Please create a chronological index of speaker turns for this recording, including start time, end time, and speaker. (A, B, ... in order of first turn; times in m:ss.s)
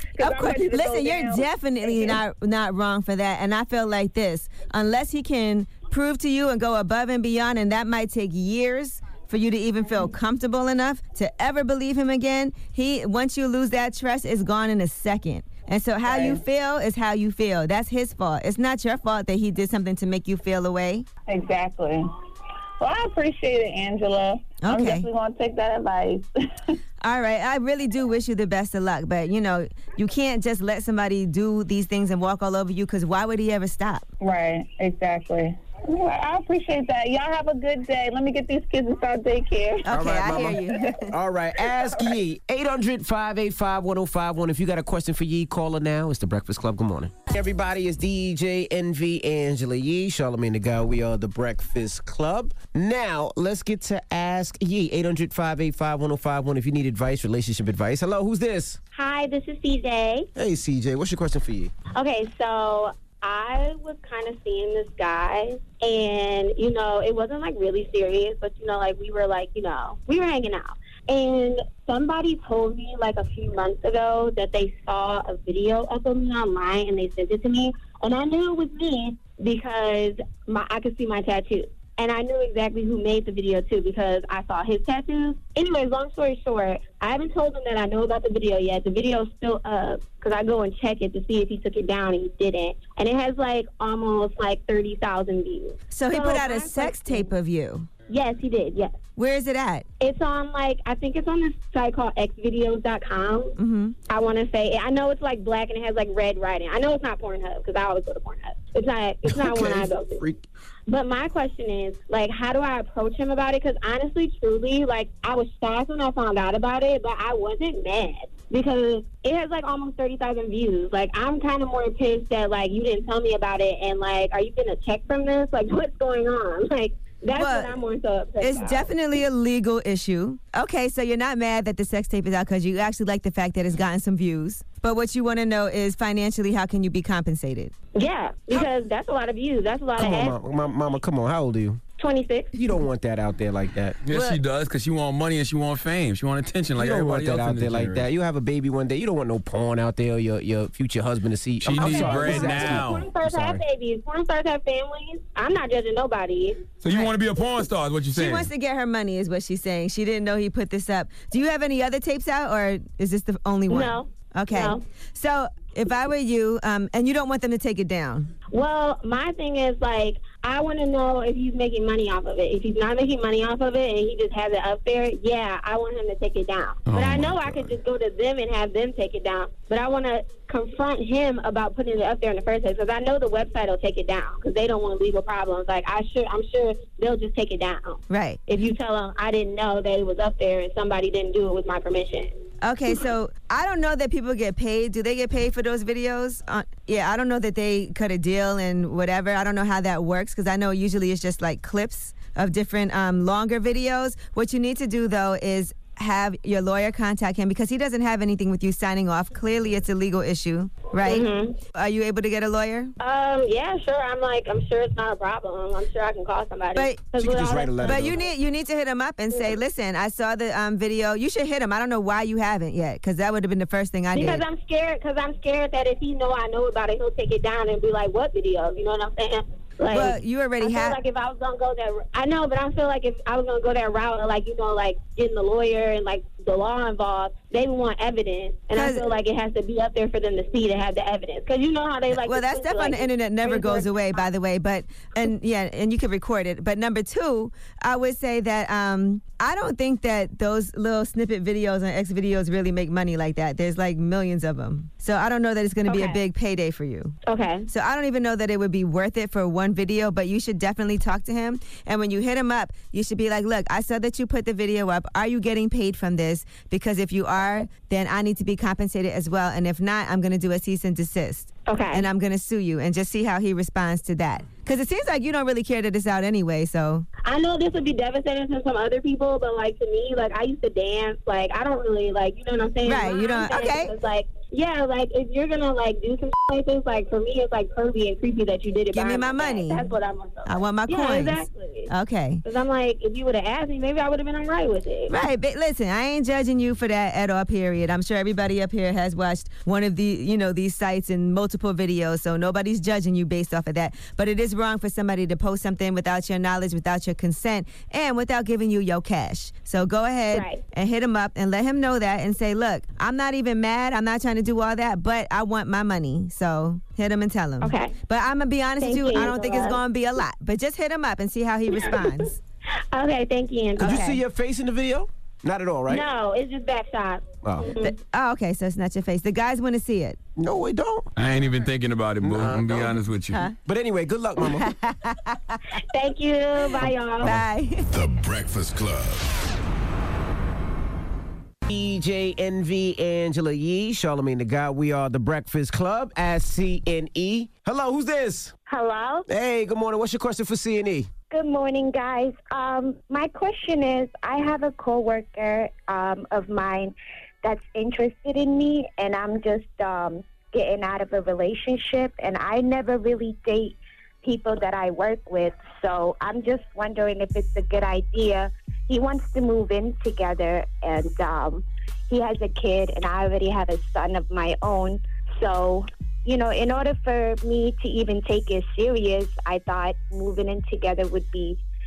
0:00.2-0:02.2 A
0:00.2-0:21.1 B
0:16.0-0:16.4 A
0:21.3-0:22.1 A
0:22.8-0:26.3 A
0:24.6-0:25.1 B
0:27.0-0:34.1 B
0:34.2-0:41.0 A
0:39.9-0:41.1 B
0:39.9-0:58.8 C
0:41.6-0:42.2 A
0:58.9-1:00.3 D
1:00.4-1:01.7 C
1:02.0-1:37.3 D
1:35.9-1:37.9 B
1:38.1-1:39.0 D
1:39.2-1:39.8 B
1:40.0-1:43.6 D
1:43.6-1:44.0 B
1:44.1-1:50.2 D
1:49.3-1:50.4 C
1:50.9-2:08.9 D
2:07.3-2:07.8 B
2:08.4-2:17.7 B
2:18.0-2:20.4 D
2:20.0-2:21.8 C
2:22.0-2:22.6 D
2:22.6-2:24.0 C
2:24.0-2:28.1 E
2:24.1-2:24.4 B
2:26.8-2:33.6 C
2:31.6-2:33.1 E
2:31.7-2:36.7 D
2:36.8-2:38.5 E
2:38.1-2:48.3 B
2:43.7-2:44.8 D
2:48.5-3:12.4 D
2:56.9-2:57.3 E
2:57.0-2:57.6 F
3:08.1-3:08.4 B
3:12.6-3:32.9 B
3:31.0-3:31.6 D
3:33.0-3:38.3 D
3:36.8-3:37.1 B
3:37.2-3:38.2 C
3:37.8-3:44.4 B
3:39.3-3:39.6 D
3:44.1-4:04.3 D
3:49.9-3:51.0 B
3:58.7-3:59.1 B
4:02.1-4:17.1 B
4:15.9-4:16.2 D
4:17.3-4:17.7 D
4:17.7-4:37.1 B
4:31.7-4:32.1 D
4:37.2-4:51.9 D
4:42.8-4:44.0 B
4:48.9-4:49.9 B
4:50.4-4:52.4 B
4:52.4-4:55.3 D
4:55.1-5:22.4 B
5:10.3-5:10.6 D
5:17.6-5:18.0 D
5:18.8-5:19.8 D
5:21.7-5:22.1 D
5:22.9-5:24.1 D
5:23.8-5:24.2 B
5:23.8-5:26.0 C
5:25.9-5:27.9 D
5:27.4-5:27.7 C
5:27.8-5:30.2 B
5:30.4-5:31.1 C
5:31.2-5:33.4 E
5:32.2-5:33.0 C
5:33.7-5:34.7 C
5:34.5-5:35.6 B
5:35.9-5:37.4 D
5:36.8-5:37.9 B
5:37.9-5:39.3 F
5:41.7-5:48.5 C
5:48.7-5:49.3 G
5:49.3-5:51.1 C
5:51.3-6:21.6 G